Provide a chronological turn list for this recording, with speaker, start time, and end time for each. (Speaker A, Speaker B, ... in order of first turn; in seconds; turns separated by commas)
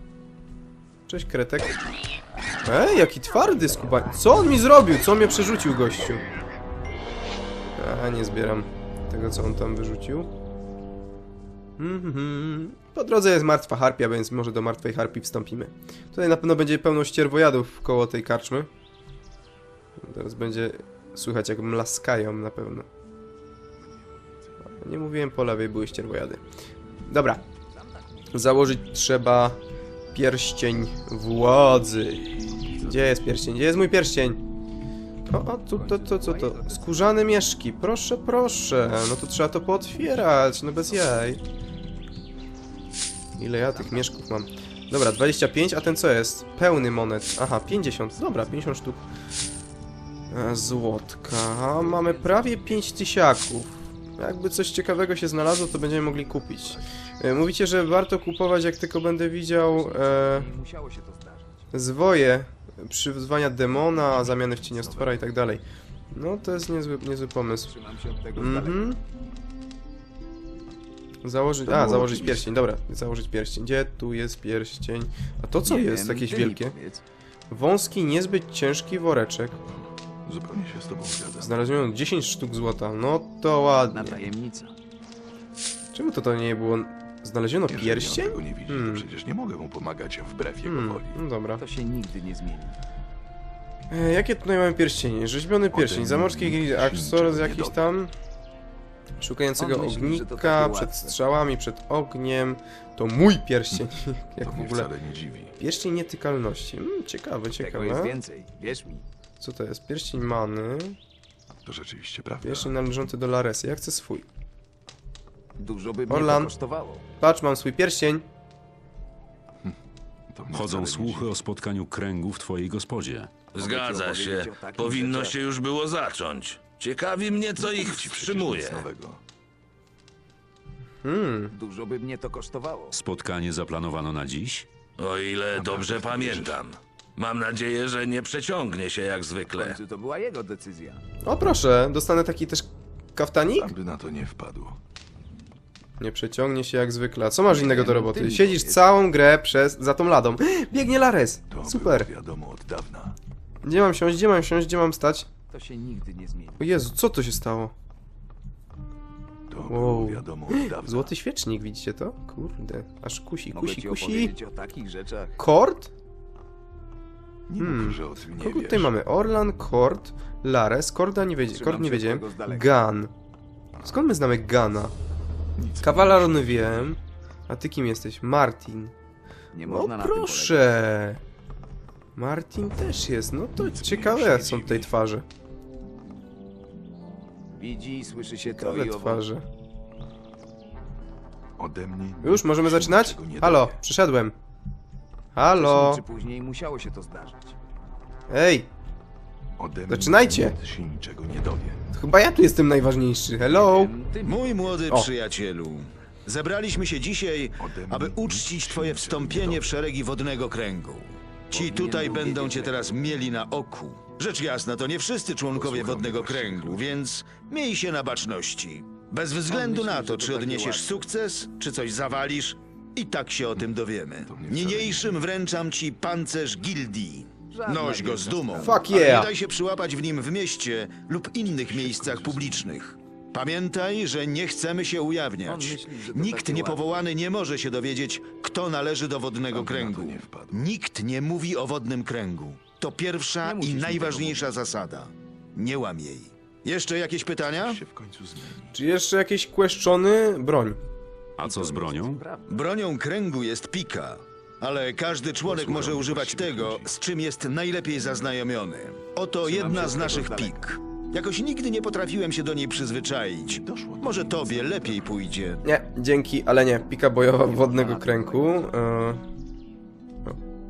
Speaker A: 1.1-1.8, Speaker A: 2.6-6.2, Speaker A: 7.8-10.3, Speaker A: 11.8-18.7, Speaker A: 20.0-22.9, Speaker B: 23.8-24.8, Speaker A: 24.8-26.4, Speaker A: 27.1-27.4, Speaker C: 27.9-28.3, Speaker A: 28.3-29.6, Speaker A: 30.1-34.4, Speaker A: 35.3-41.4, Speaker C: 35.7-37.3, Speaker A: 43.4-49.0, Speaker C: 43.7-44.0, Speaker A: 50.3-60.5, Speaker C: 51.6-53.0, Speaker C: 56.5-56.8, Speaker C: 59.7-61.6, Speaker A: 61.7-67.7, Speaker C: 64.1-65.2, Speaker C: 67.7-69.0, Speaker A: 68.3-69.0, Speaker A: 71.2-76.7, Speaker B: 71.7-72.2, Speaker C: 75.6-77.0, Speaker A: 77.5-79.6, Speaker B: 80.2-81.7, Speaker A: 81.4-84.2, Speaker C: 83.9-84.7, Speaker A: 85.9-89.0, Speaker B: 87.7-91.2, Speaker A: 90.6-91.6, Speaker C: 91.6-92.8, Speaker A: 93.9-98.1, Speaker B: 95.7-97.8, Speaker A: 99.2-104.9, Speaker C: 99.6-101.2, Speaker B: 104.4-105.5, Speaker A: 105.6-108.2, Speaker C: 107.6-109.0, Speaker A: 109.4-111.0, Speaker B: 111.7-112.8, Speaker A: 112.4-114.2, Speaker C: 115.6-117.0, Speaker A: 116.1-116.5, Speaker A: 117.2-118.2, Speaker B: 120.3-121.3, Speaker D: 120.5-123.4, Speaker E: 123.5-128.9, Speaker C: 123.5-125.3, Speaker B: 127.6-129.2, Speaker A: 131.0-131.5, Speaker C: 131.5-132.9, Speaker D: 132.9-134.7, Speaker E: 135.0-139.8, Speaker B: 135.6-136.6, Speaker C: 139.6-141.0, Speaker A: 141.2-143.7, Speaker B: 143.5-144.8, Speaker A: 146.0-152.1, Speaker C: 147.5-148.9, Speaker B: 151.5-153.2, Speaker A: 153.6-155.3, Speaker C: 155.5-156.8, Speaker A: 156.6-157.7, Speaker B: 159.5-161.1, Speaker A: 159.7-164.3, Speaker C: 163.5-165.4, Speaker A: 165.4-165.9, Speaker B: 167.5-168.9, Speaker A: 167.6-173.1, Speaker C: 171.5-172.7, Speaker A: 173.8-174.9, Speaker B: 175.6-177.0, Speaker A: 175.8-178.9, Speaker C: 179.5-180.7, Speaker A: 179.7-181.2, Speaker A: 182.2-185.2, Speaker B: 183.6-184.9, Speaker C: 187.5-189.2, Speaker A: 188.6-189.4, Speaker B: 191.6-193.8, Speaker A: 192.2-194.3, Speaker A: 195.3-196.0, Speaker C: 195.5-197.6, Speaker A: 198.3-198.7, Speaker B: 199.6-201.8, Speaker A: 199.9-200.6, Speaker A: 201.9-203.9, Speaker C: 203.4-205.0, Speaker F: 204.2-247.8, Speaker B: 207.6-209.8, Speaker C: 211.5-213.0, Speaker B: 215.5-216.9, Speaker C: 219.4-221.0, Speaker B: 224.2-225.2, Speaker C: 227.5-229.0, Speaker A: 228.6-229.3, Speaker B: 231.6-232.7, Speaker C: 235.4-237.1, Speaker B: 239.5-240.7, Speaker C: 243.4-244.5, Speaker B: 247.5-248.8, Speaker A: 248.7-250.8, Speaker D: 251.4-252.2, Speaker C: 251.4-252.6, Speaker F: 252.5-265.6, Speaker B: 255.4-256.9, Speaker C: 259.4-260.7, Speaker B: 263.5-265.3, Speaker A: 265.6-269.2, Speaker C: 267.4-268.7